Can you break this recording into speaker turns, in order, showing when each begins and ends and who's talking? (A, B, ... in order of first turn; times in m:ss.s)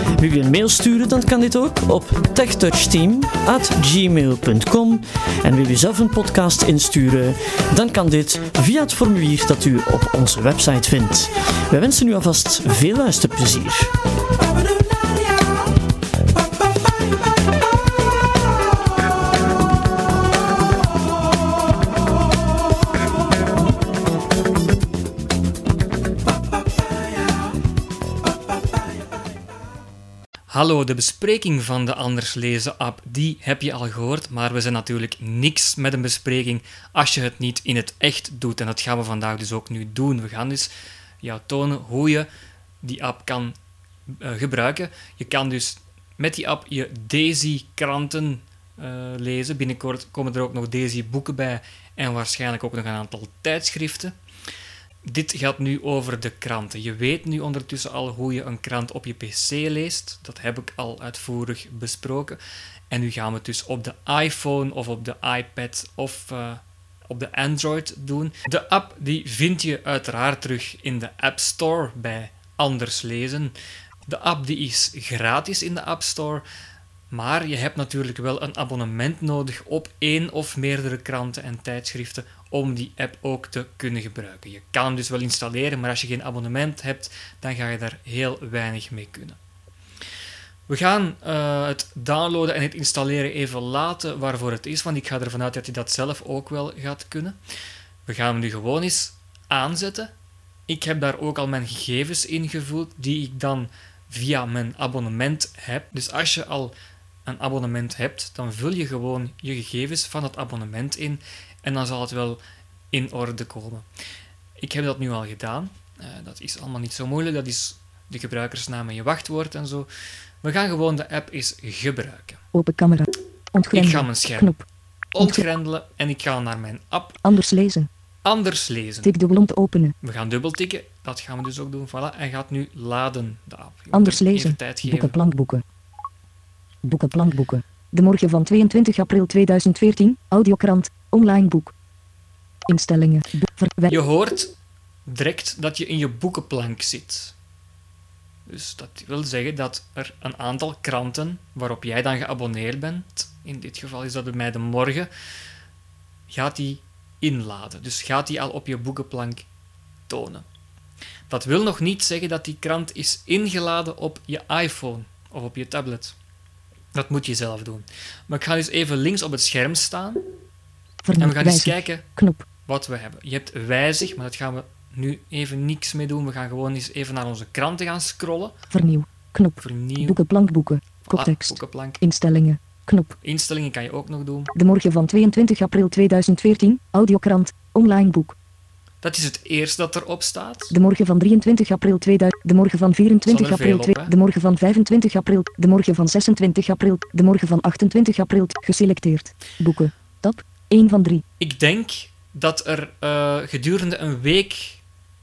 0:00.1-0:13.9 A
0:30.5-0:40.7 B
0:41.2-0:42.3 B
0:42.8-0:43.6 B
0:44.1-0:54.1 B
0:55.0-1:02.4 B
1:02.9-1:13.5 B
1:14.1-1:16.4 B
1:17.1-1:29.4 B
1:30.7-1:37.4 B
1:38.1-1:40.1 B
1:40.7-1:46.7 B
1:47.2-1:52.4 B
1:52.9-1:53.8 B
1:54.6-1:59.9 B
2:00.4-2:02.4 B
2:02.5-2:04.6 C
2:03.7-2:04.6 B
2:05.1-2:07.2 B
2:07.2-2:07.9 C
2:08.2-2:09.2 B
2:09.0-2:09.9 C
2:10.0-2:15.2 B
2:13.9-2:15.6 C
2:16.8-2:21.7 C
2:22.7-2:24.0 C
2:23.9-2:24.5 B
2:25.1-2:27.3 B
2:28.5-2:35.1 B
2:36.3-2:39.4 B
2:40.1-2:40.4 B
2:41.3-2:46.2 B
2:46.9-2:50.2 B
2:51.0-2:52.4 C
2:51.2-2:52.1 B
2:52.7-2:58.6 B
2:58.7-3:03.2 C
2:59.6-3:00.2 B
3:01.0-3:02.0 B
3:03.2-3:04.5 B
3:04.6-3:08.4 C
3:09.0-3:10.8 B
3:10.7-3:21.2 C
3:13.2-3:14.1 B
3:21.4-3:24.8 B